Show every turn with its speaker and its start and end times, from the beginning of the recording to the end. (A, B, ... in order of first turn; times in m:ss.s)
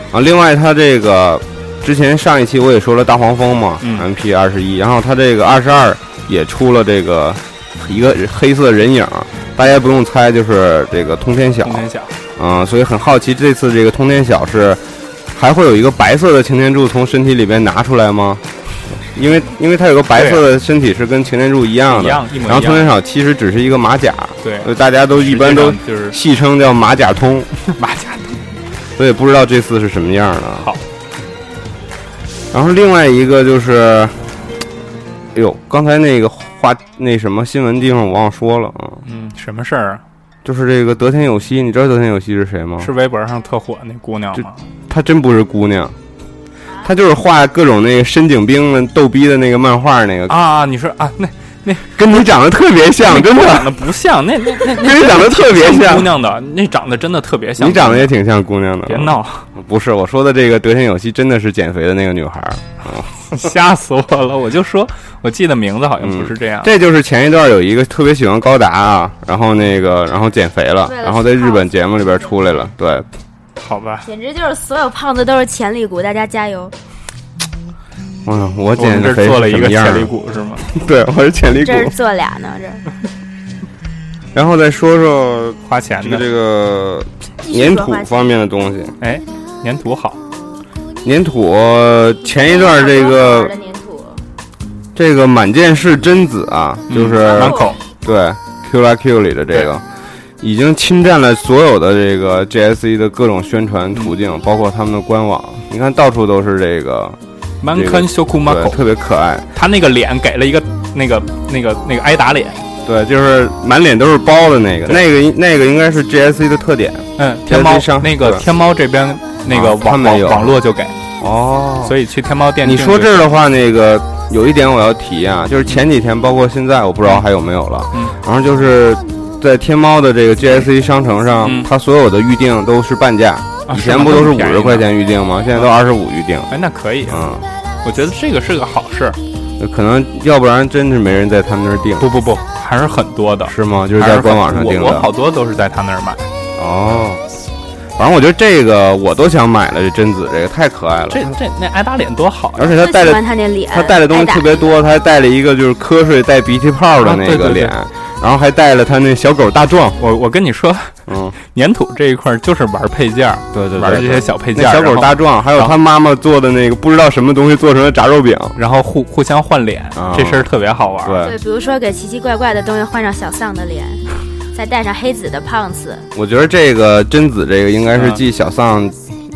0:00.1-0:11.8 A
0:03.8-0:04.1 B
0:11.6-0:12.2 B
0:12.4-0:14.8 A
0:15.3-0:18.4 A
0:19.0-0:27.5 A
0:20.2-0:20.4 B
0:21.9-0:22.9 B
0:24.4-0:26.2 B
0:27.7-0:28.4 B
0:29.0-0:30.7 A
0:32.5-0:34.3 A
0:35.4-0:39.0 A
0:39.0-0:40.0 B
0:40.4-0:42.9 A
0:42.8-0:44.6 B
0:44.9-0:46.0 A
0:46.8-0:50.4 A
0:50.3-0:52.0 B
0:52.0-0:53.7 A
0:53.0-0:58.1 B
0:54.6-0:56.1 A
0:57.6-1:03.1 A
0:58.9-0:59.5 B
1:03.2-1:06.7 B
1:06.0-1:13.1 A
1:10.8-1:12.3 C
1:13.6-1:14.1 B
1:14.0-1:16.7 C
1:18.2-1:20.1 A
1:18.8-1:20.7 B
1:20.7-1:21.9 A
1:21.6-1:22.9 C
1:24.3-1:29.0 A
1:25.7-1:26.2 B
1:27.4-1:28.1 C
1:29.0-1:30.2 B
1:31.0-1:33.5 A
1:32.3-1:34.2 C
1:35.0-1:39.8 A
1:36.9-1:37.8 B
1:37.2-1:37.8 C
1:40.4-1:47.2 A
1:47.6-1:48.8 B
1:47.7-1:49.5 A
1:49.5-1:52.7 B
1:52.8-1:58.4 A
1:57.2-2:01.0 B
1:59.5-2:00.6 A
2:01.2-2:02.0 A
2:01.8-2:03.3 B
2:02.6-2:16.5 A
2:11.4-2:11.7 B
2:13.7-2:14.9 B
2:16.5-2:17.2 B
2:17.1-2:17.5 A
2:17.8-2:19.2 B
2:19.6-2:22.1 A
2:22.0-2:26.2 B
2:23.5-2:25.1 A
2:26.6-2:27.2 A
2:28.0-2:31.3 A
2:31.1-2:32.8 B
2:32.6-2:40.0 A
2:32.8-2:34.8 C
2:37.0-2:37.7 B
2:40.0-2:45.7 B
2:41.1-2:41.4 A
2:43.5-2:48.6 A
2:48.6-2:51.2 B
2:50.0-2:50.5 A
2:51.0-2:51.4 A
2:51.2-2:56.1 C
2:56.2-2:59.0 A
2:58.0-2:58.2 B